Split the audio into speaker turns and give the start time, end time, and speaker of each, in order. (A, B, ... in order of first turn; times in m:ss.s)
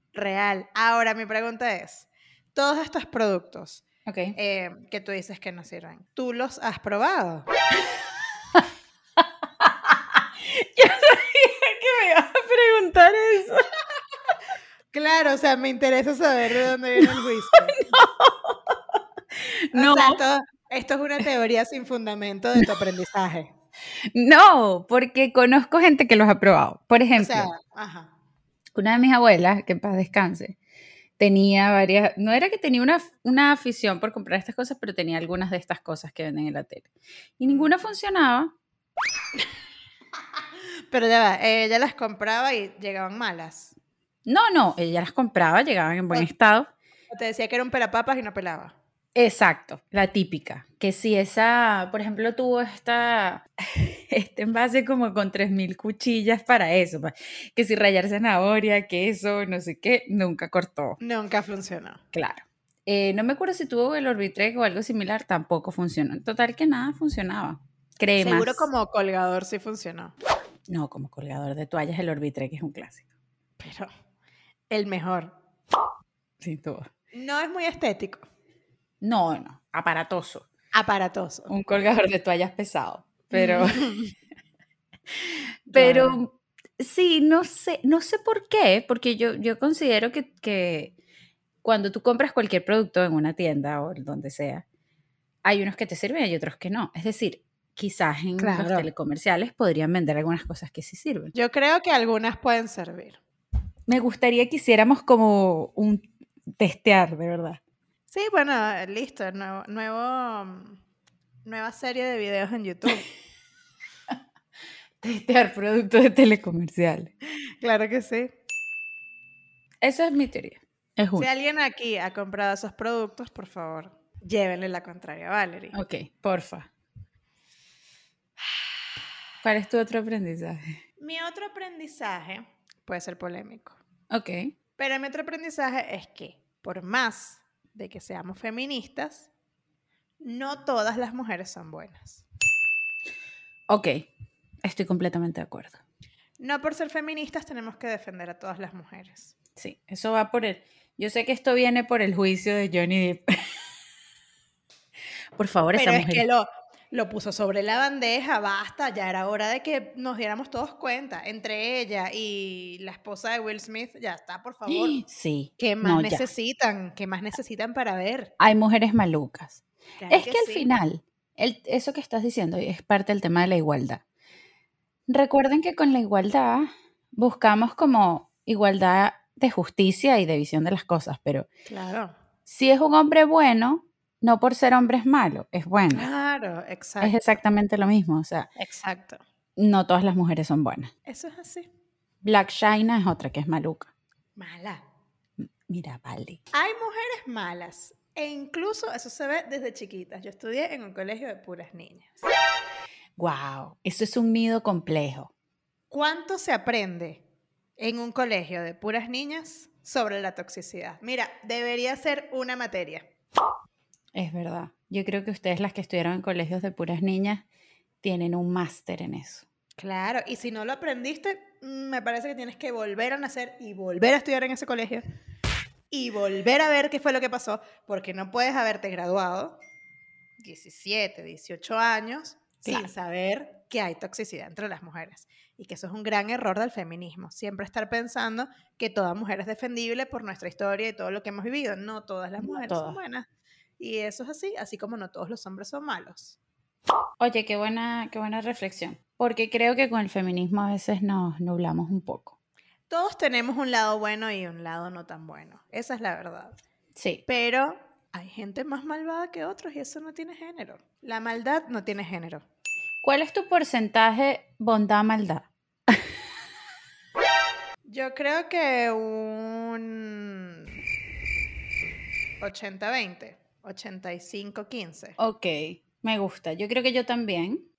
0:00.1-0:03.8 A
0:04.1-0:04.4 B
0:04.4-0:07.5 A
0:09.6-0:13.6 B
0:14.9-0:17.8 A
0:17.0-0:17.2 B
0:17.8-0:18.8 B
0:19.7-0:20.2 B
0:19.7-0:23.5 A
0:24.1-0:27.5 B
0:27.2-0:28.1 A
0:28.8-0:30.6 B
0:31.2-0:38.5 B
0:37.4-0:37.8 A
0:40.9-0:43.7 A
0:44.3-0:46.7 B
0:47.1-0:48.8 A
0:49.2-1:01.0 B
1:01.0-1:02.0 A
1:02.1-1:08.7 B
1:08.2-1:10.1 A
1:10.7-1:13.0 B
1:13.6-1:13.9 A
1:14.7-1:15.3 A
1:16.4-1:16.9 B
1:17.1-1:18.2 A
1:19.0-1:20.4 B
1:20.7-1:21.5 A
1:21.5-1:24.0 B
1:23.3-1:24.1 A
1:25.7-1:30.9 B
1:25.7-1:26.2 A
1:31.6-1:34.6 B
1:35.4-1:41.3 B
1:38.4-1:38.9 A
1:41.3-1:43.2 A
1:43.9-1:47.6 B
1:48.1-1:50.8 A
1:51.4-1:53.1 A
1:55.0-1:57.1 B
1:57.6-1:58.4 A
1:59.8-2:01.3 B
2:01.2-2:05.8 A
2:05.7-2:06.7 B
2:09.4-2:10.8 B
2:11.0-2:13.8 A
2:14.1-2:14.5 B
2:14.8-2:19.3 A
2:20.2-2:22.2 A
2:23.7-2:24.1 B
2:24.6-2:25.8 B
2:26.4-2:29.3 A
2:29.6-2:33.2 B
2:35.4-2:36.2 B
2:35.7-2:45.0 A
2:44.7-2:46.3 B
2:45.6-2:48.3 A
2:48.4-2:54.0 B
2:50.0-2:50.7 A
2:55.1-3:01.5 B
3:01.7-3:02.1 A
3:02.5-3:06.1 B
3:05.9-3:07.2 A
3:07.0-3:08.5 B
3:08.6-3:09.2 A
3:09.6-3:10.9 B
3:11.1-3:11.7 A
3:12.2-3:13.9 B
3:14.4-3:14.8 A
3:15.4-3:16.4 B
3:16.5-3:22.2 A
3:23.2-3:25.3 B
3:25.9-3:27.2 A
3:27.8-3:33.1 A
3:34.1-3:37.4 B
3:38.0-3:39.4 B
3:39.8-3:45.0 A
3:45.9-3:49.6 A
3:50.4-4:03.3 A
4:02.4-4:03.0 B
4:03.8-4:06.4 A
4:07.2-4:12.4 B
4:12.9-4:16.6 A
4:17.0-4:17.2 B
4:17.3-4:22.4 A
4:23.0-4:26.0 B
4:27.9-4:30.8 A
4:32.4-4:35.2 A
4:35.2-4:37.6 B